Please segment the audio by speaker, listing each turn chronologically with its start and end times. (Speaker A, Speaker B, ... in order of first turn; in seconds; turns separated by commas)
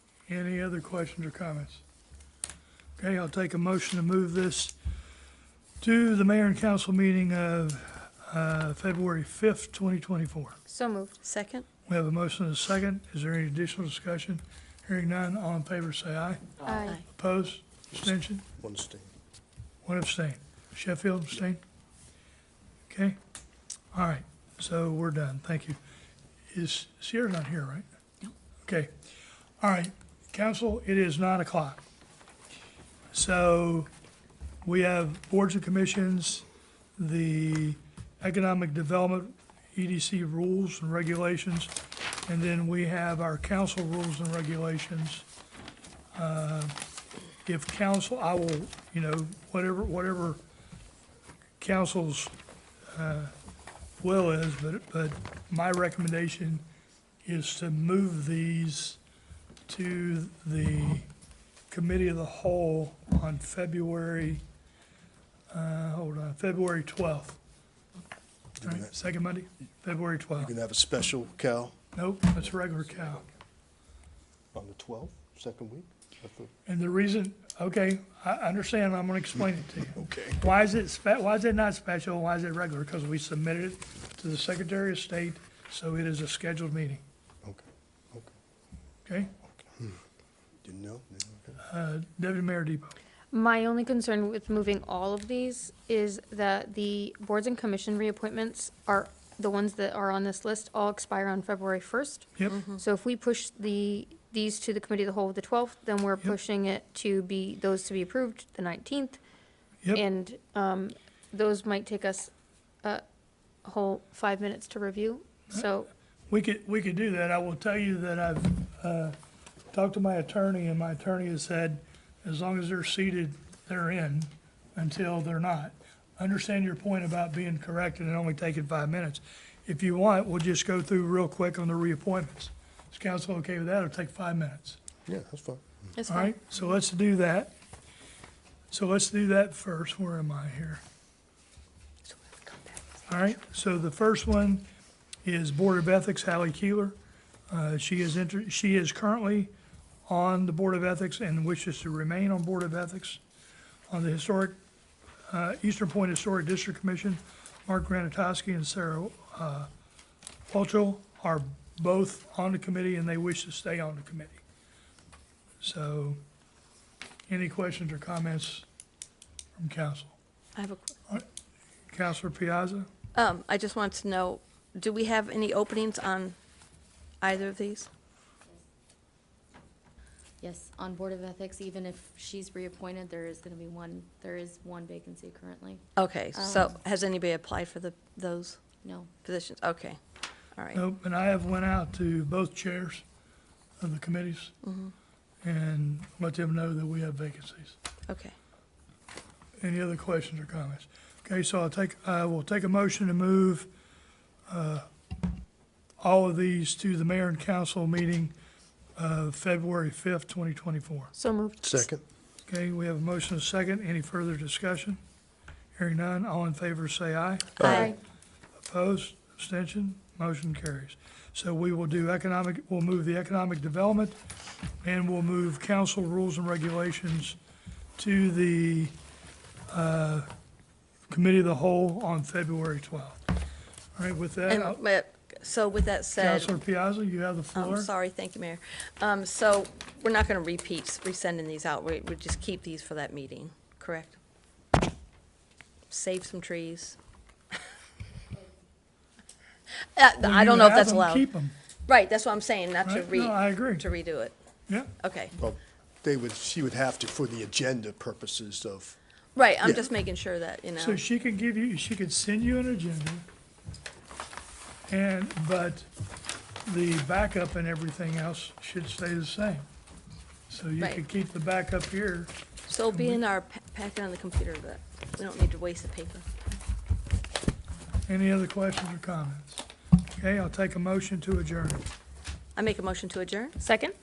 Speaker A: 0.3-1.8, Speaker A: 3.0-4.7, Speaker A: 5.8-10.6, Speaker B: 10.7-11.2, Speaker C: 11.2-11.7, Speaker A: 11.9-16.4, Speaker B: 16.6-17.0, Speaker A: 17.1-18.4, Speaker D: 17.9-19.1, Speaker A: 19.8-21.6, Speaker A: 22.9-23.2, Speaker A: 23.9-25.8, Speaker A: 26.5-27.8, Speaker A: 28.6-28.9, Speaker A: 29.6-31.8, Speaker A: 33.1-33.9, Speaker A: 34.6-36.4, Speaker A: 37.0-41.7, Speaker A: 42.3-45.2, Speaker A: 46.1-46.8, Speaker A: 47.5-50.4, Speaker A: 51.6-52.3, Speaker A: 52.9-53.3, Speaker A: 54.0-56.6, Speaker A: 57.2-59.0, Speaker A: 59.7-61.1, Speaker A: 61.7-64.4, Speaker A: 65.5-67.4, Speaker D: 68.6-69.0, Speaker A: 68.6-70.5, Speaker D: 70.4-71.7, Speaker A: 71.9-73.2, Speaker D: 72.4-73.2, Speaker D: 74.5-76.5, Speaker A: 76.7-87.0, Speaker D: 79.9-80.5, Speaker D: 87.4-88.3, Speaker A: 89.0-89.3, Speaker D: 90.6-91.6, Speaker A: 91.6-93.0, Speaker B: 93.3-109.2, Speaker C: 102.5-102.8, Speaker B: 109.9-112.3, Speaker B: 113.6-115.9, Speaker A: 116.3-119.2, Speaker A: 119.7-134.8, Speaker D: 135.1-135.8, Speaker C: 135.9-136.3, Speaker A: 136.1-137.5, Speaker A: 138.7-140.8, Speaker C: 142.1-142.9, Speaker A: 143.1-144.6, Speaker A: 145.2-146.9, Speaker A: 147.5-149.5, Speaker A: 150.1-153.2, Speaker A: 153.9-154.6, Speaker A: 155.3-159.7, Speaker A: 160.5-164.4, Speaker A: 165.6-166.2, Speaker A: 167.3-168.6, Speaker A: 169.6-170.1, Speaker C: 170.6-170.9, Speaker A: 171.9-172.9, Speaker C: 173.1-176.3, Speaker C: 177.2-177.9, Speaker E: 180.4-185.8, Speaker C: 185.9-188.6, Speaker E: 186.3-186.8, Speaker E: 188.8-189.1, Speaker C: 189.2-190.0, Speaker C: 190.5-190.8, Speaker A: 190.7-193.0, Speaker A: 193.8-194.5, Speaker C: 194.6-194.9, Speaker A: 195.4-197.8, Speaker C: 198.1-198.3, Speaker A: 199.6-203.7, Speaker A: 204.5-204.8, Speaker A: 206.0-208.3, Speaker A: 209.0-211.1, Speaker B: 211.2-211.8, Speaker D: 211.6-212.0, Speaker A: 212.5-215.0, Speaker A: 215.8-217.8, Speaker D: 217.6-217.9, Speaker C: 217.6-217.9, Speaker B: 217.6-218.0, Speaker A: 218.6-224.2, Speaker A: 224.8-227.4, Speaker A: 228.0-228.9, Speaker A: 229.7-230.3, Speaker A: 231.1-233.2, Speaker A: 233.9-234.8, Speaker C: 234.5-236.5, Speaker A: 236.2-237.9, Speaker C: 237.5-244.2, Speaker C: 245.9-247.0, Speaker C: 249.9-251.2, Speaker A: 250.2-251.6, Speaker C: 251.9-254.3, Speaker A: 252.8-253.8, Speaker C: 255.0-255.3, Speaker D: 255.4-258.9, Speaker C: 259.4-261.0, Speaker A: 260.8-263.2, Speaker A: 264.9-265.9, Speaker A: 266.6-269.6, Speaker A: 270.5-272.3, Speaker C: 272.7-276.3, Speaker A: 272.8-273.2, Speaker A: 278.1-279.6, Speaker A: 280.1-281.8, Speaker C: 282.6-283.6, Speaker B: 283.6-283.9